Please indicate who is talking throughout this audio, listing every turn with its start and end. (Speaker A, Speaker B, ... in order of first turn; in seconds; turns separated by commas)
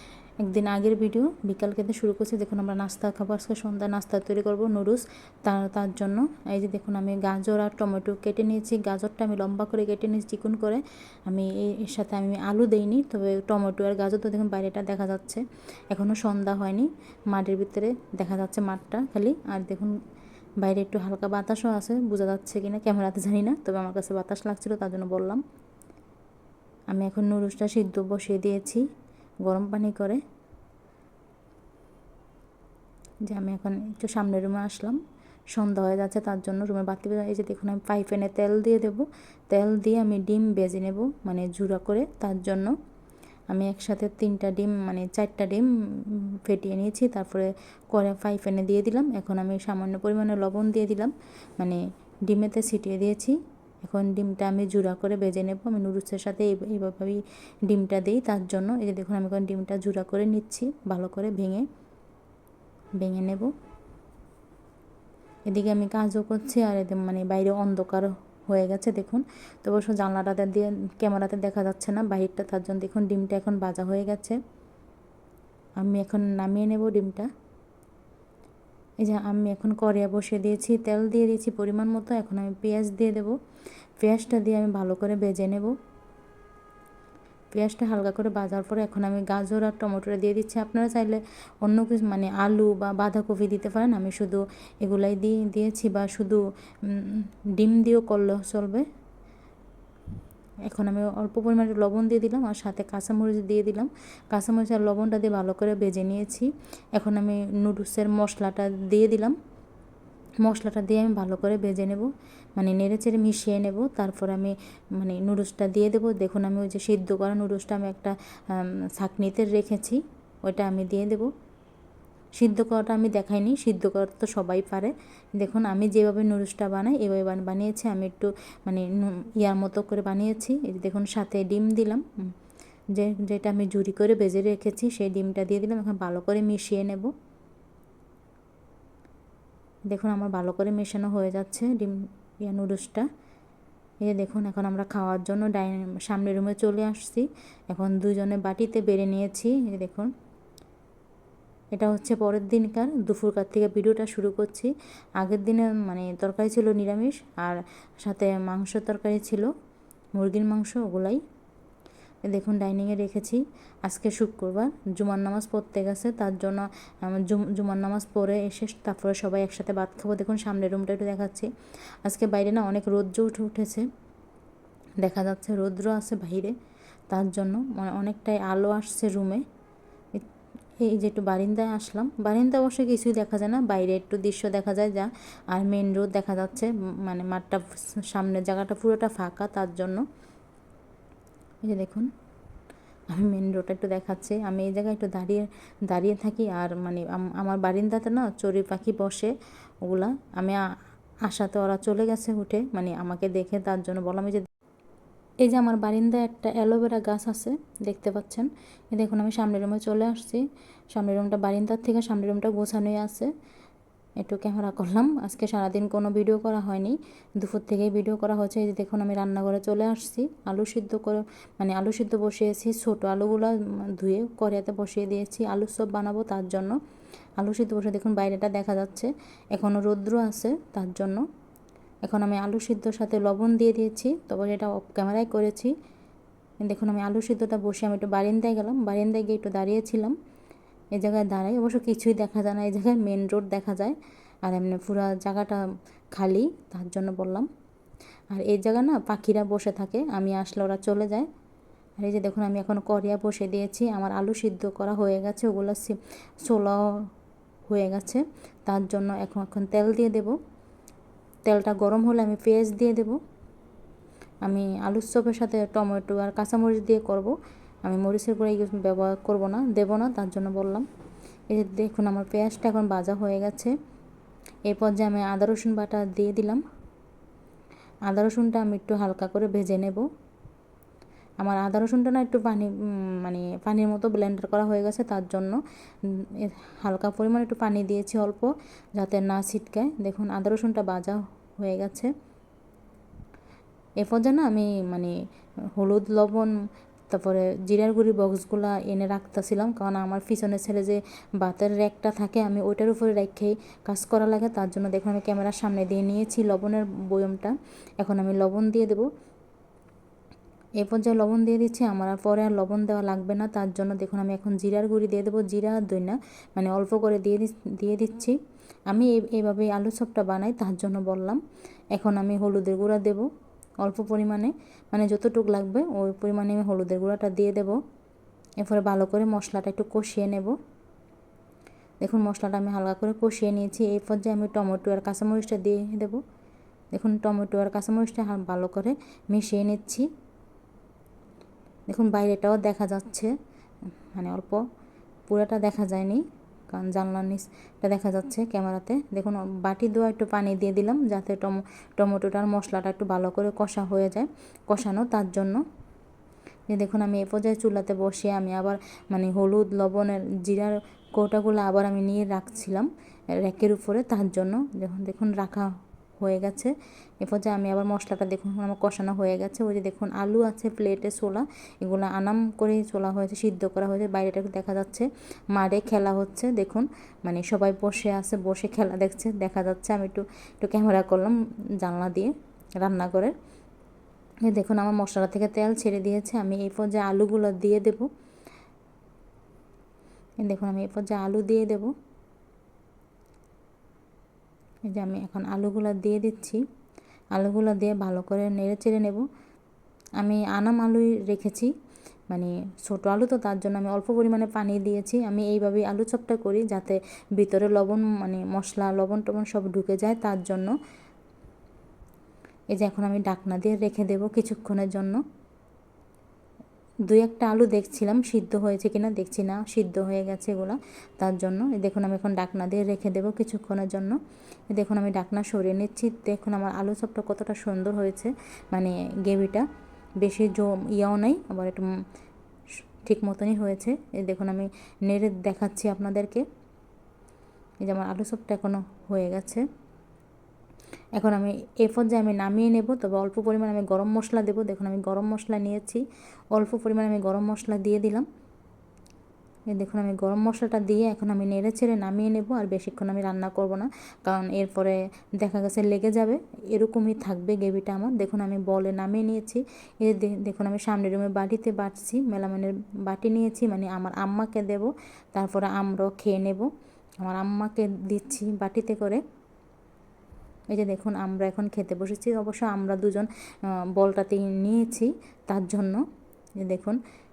Speaker A: 0.5-19.9, Speaker A: 20.6-25.4, Speaker A: 26.9-28.9, Speaker A: 29.4-30.2, Speaker A: 33.3-35.0, Speaker A: 35.5-42.8, Speaker A: 43.5-61.7, Speaker A: 63.0-63.5, Speaker A: 65.5-74.4, Speaker A: 75.8-77.3, Speaker A: 79.0-83.4, Speaker A: 84.0-85.8, Speaker A: 87.5-98.8, Speaker A: 100.7-109.4, Speaker A: 110.4-121.3, Speaker A: 122.4-132.1, Speaker A: 132.9-137.1, Speaker A: 139.9-143.1, Speaker A: 144.0-150.1, Speaker A: 151.7-159.5, Speaker A: 160.2-161.2, Speaker A: 162.3-171.5, Speaker A: 172.0-173.9, Speaker A: 175.0-176.5, Speaker A: 177.1-179.4, Speaker A: 180.8-190.1, Speaker A: 191.6-192.1, Speaker A: 193.1-199.3, Speaker A: 199.8-200.6, Speaker A: 201.2-204.5, Speaker A: 205.4-213.3, Speaker A: 214.2-226.8, Speaker A: 227.4-231.2, Speaker A: 232.0-235.7, Speaker A: 236.6-240.2, Speaker A: 240.9-247.5, Speaker A: 248.3-251.3, Speaker A: 252.0-256.9, Speaker A: 257.7-260.4, Speaker A: 261.5-263.2, Speaker A: 264.5-267.3, Speaker A: 267.9-270.9, Speaker A: 271.5-273.7, Speaker A: 274.7-276.6, Speaker A: 278.1-280.1, Speaker A: 281.4-292.1, Speaker A: 294.0-295.1, Speaker A: 295.8-296.5, Speaker A: 297.1-309.1, Speaker A: 310.8-318.4, Speaker A: 318.9-321.4, Speaker A: 321.9-323.3, Speaker A: 323.8-327.8, Speaker A: 328.6-330.6, Speaker A: 332.0-336.2, Speaker A: 336.9-340.1, Speaker A: 341.9-343.3, Speaker A: 344.1-344.6, Speaker A: 345.3-355.6, Speaker A: 356.7-383.3, Speaker A: 384.5-388.1, Speaker A: 390.4-391.9, Speaker A: 394.9-396.6, Speaker A: 397.4-399.2, Speaker A: 400.2-401.7, Speaker A: 402.3-410.8, Speaker A: 412.7-415.2, Speaker A: 417.1-424.2, Speaker A: 424.7-429.7, Speaker A: 430.2-431.9, Speaker A: 433.0-436.4, Speaker A: 437.8-439.6, Speaker A: 441.1-448.3, Speaker A: 449.7-466.7, Speaker A: 467.2-469.2, Speaker A: 470.7-473.3, Speaker A: 473.9-476.1, Speaker A: 476.6-477.0